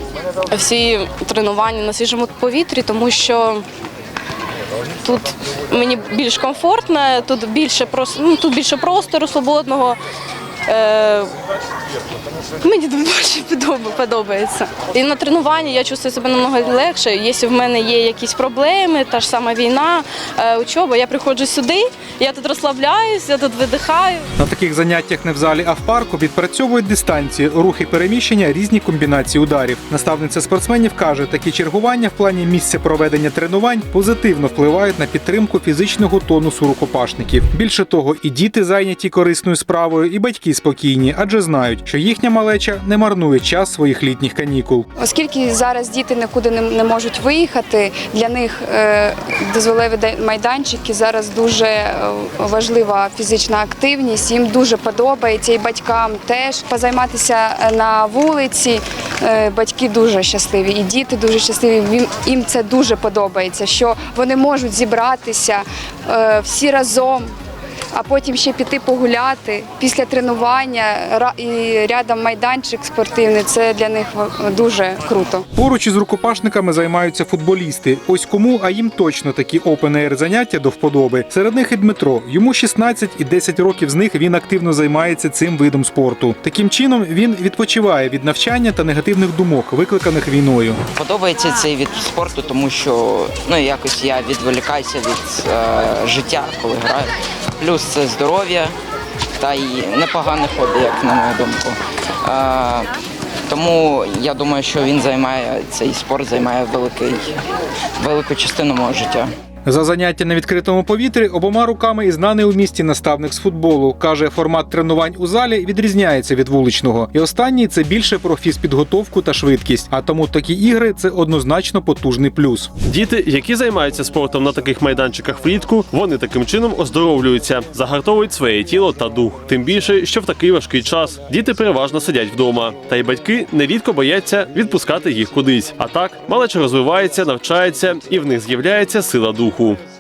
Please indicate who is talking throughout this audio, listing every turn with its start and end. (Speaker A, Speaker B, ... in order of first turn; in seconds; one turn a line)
Speaker A: 0.5-3.6
Speaker A: 5.0-10.0
Speaker A: 10.7-11.3
Speaker A: 12.6-24.2
Speaker B: 24.4-44.9
Speaker C: 45.0-67.3
Speaker C: 67.9-75.4
Speaker B: 75.5-90.8
Speaker D: 90.9-98.8
Speaker D: 99.4-102.9
Speaker D: 103.5-107.4
Speaker D: 108.0-109.3
Speaker B: 109.7-122.7
Speaker E: 122.9-139.8